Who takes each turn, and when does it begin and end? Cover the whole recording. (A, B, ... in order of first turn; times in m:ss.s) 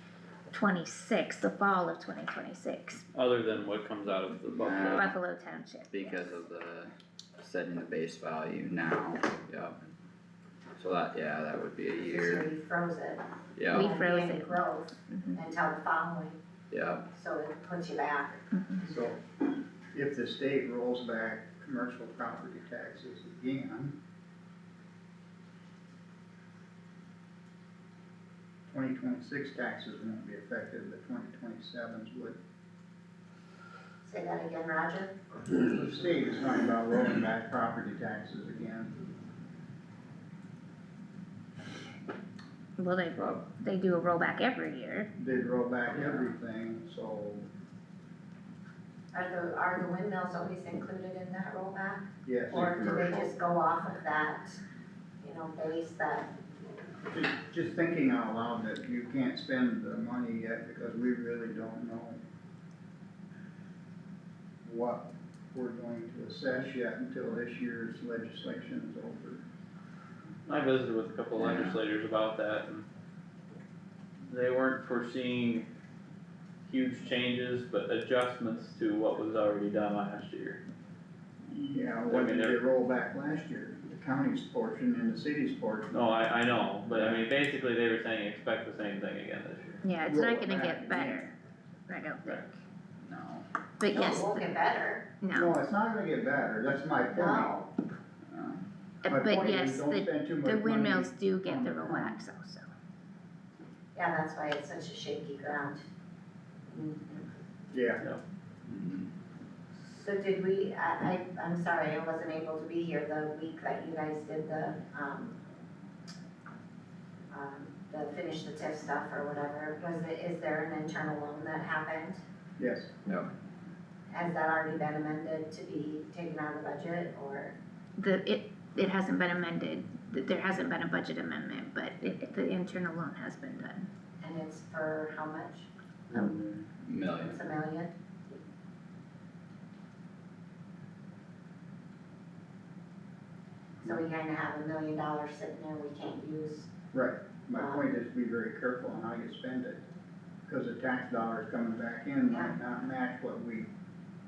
0:00.5-0:03.0 A
0:03.1-0:05.1 B
0:04.5-0:05.2 C
0:04.9-0:06.3 A
0:05.9-0:09.8 C
0:10.8-0:12.5 C
0:12.0-0:16.4 D
0:13.6-0:13.9 C
0:13.7-0:15.4 A
0:16.7-0:17.1 C
0:17.1-0:19.0 D
0:18.5-0:18.8 A
0:18.9-0:19.2 E
0:19.9-0:24.0 E
0:28.7-0:32.4 E
0:34.0-0:35.2 D
0:35.5-0:39.0 E
0:42.8-0:45.1 A
0:45.2-0:47.4 E
0:49.1-0:54.6 D
0:52.2-0:53.2 E
0:55.2-0:56.3 D
0:57.1-1:02.2 E
1:04.6-1:09.4 E
1:10.4-1:12.8 B
1:11.4-1:11.7 C
1:14.3-1:15.7 B
1:16.6-1:20.6 B
1:21.4-1:25.9 E
1:22.1-1:22.6 B
1:25.9-1:29.8 B
1:29.8-1:31.3 A
1:30.0-1:31.2 E
1:31.9-1:32.6 A
1:33.0-1:33.4 C
1:33.8-1:34.5 A
1:33.9-1:35.1 D
1:35.2-1:35.5 A
1:35.3-1:37.6 E
1:37.1-1:37.7 D
1:39.0-1:42.7 A
1:39.1-1:42.2 E
1:43.9-1:45.8 D
1:46.7-1:47.3 D
1:47.7-1:48.0 E
1:48.7-1:49.1 C
1:49.7-1:55.4 D
1:57.3-2:02.2 D
2:02.6-2:02.9 E
2:03.1-2:03.3 C
2:04.1-2:07.5 D
2:08.0-2:13.9 A
2:14.2-2:15.7 D
2:16.8-2:17.4 C
2:17.0-2:18.4 D
2:23.8-2:26.7 D
2:26.9-2:29.8 E
2:27.5-2:27.8 D
2:30.5-2:33.7 E
2:32.3-2:32.6 D